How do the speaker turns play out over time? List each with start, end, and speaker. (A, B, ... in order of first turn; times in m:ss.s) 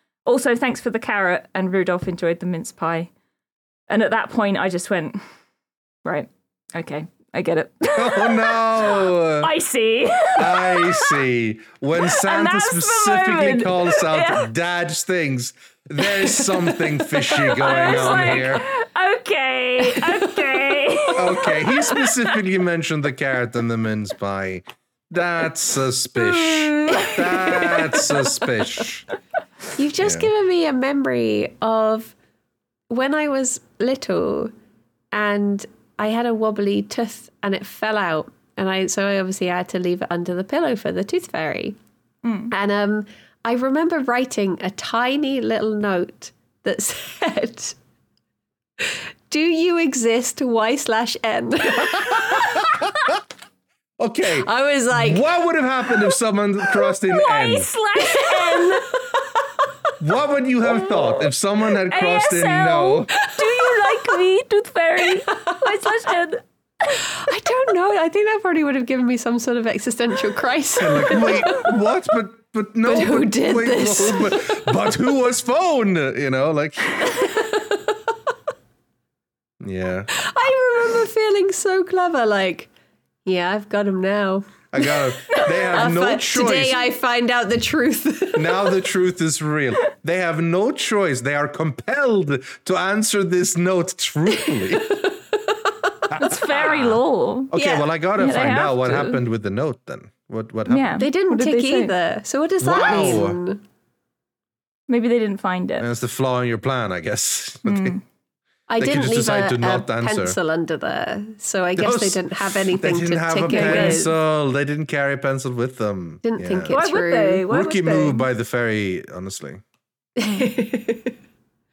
0:00.2-0:03.1 A
0:03.9-0:05.2 A
0:06.0-0:11.2 A
0:07.9-0:09.5 B
0:10.4-0:18.6 B
0:12.0-0:14.5 A
0:17.3-0:22.3 A
0:21.1-0:29.0 B
0:26.2-0:28.1 A
0:29.8-0:32.1 C
0:30.0-0:30.3 B
0:32.9-0:34.5 C
0:35.1-0:41.8 C
0:42.2-0:42.5 A
0:42.5-0:47.8 C
0:48.8-0:52.9 C
0:51.8-0:53.2 B
0:54.0-0:57.7 B
0:54.3-0:55.3 C
0:57.1-0:58.9 A
0:58.0-0:59.0 C
1:00.0-1:03.1 B
1:00.9-1:01.2 A
1:01.9-1:07.0 A
1:03.2-1:04.1 C
1:05.1-1:05.6 C
1:06.9-1:11.7 C
1:10.8-1:17.1 B
1:12.8-1:14.7 C
1:17.0-1:18.0 C
1:19.6-1:20.1 B
1:20.1-1:22.7 C
1:23.2-1:28.7 C
1:24.7-1:26.8 B
1:28.3-1:35.0 B
1:36.1-1:41.0 B
1:36.2-1:37.6 A
1:38.2-1:39.2 A
1:40.7-1:41.9 A
1:41.0-1:43.6 C
1:42.6-1:43.4 B
1:42.9-1:43.1 A
1:44.9-1:45.9 A
1:45.8-1:48.0 B
1:47.6-1:48.0 A
1:48.7-1:54.1 C
1:48.8-1:50.4 B
1:51.8-1:56.8 B
1:53.5-1:54.0 A
1:56.2-1:57.4 C
1:56.7-1:58.3 A
1:57.5-1:59.6 B
2:00.2-2:01.1 C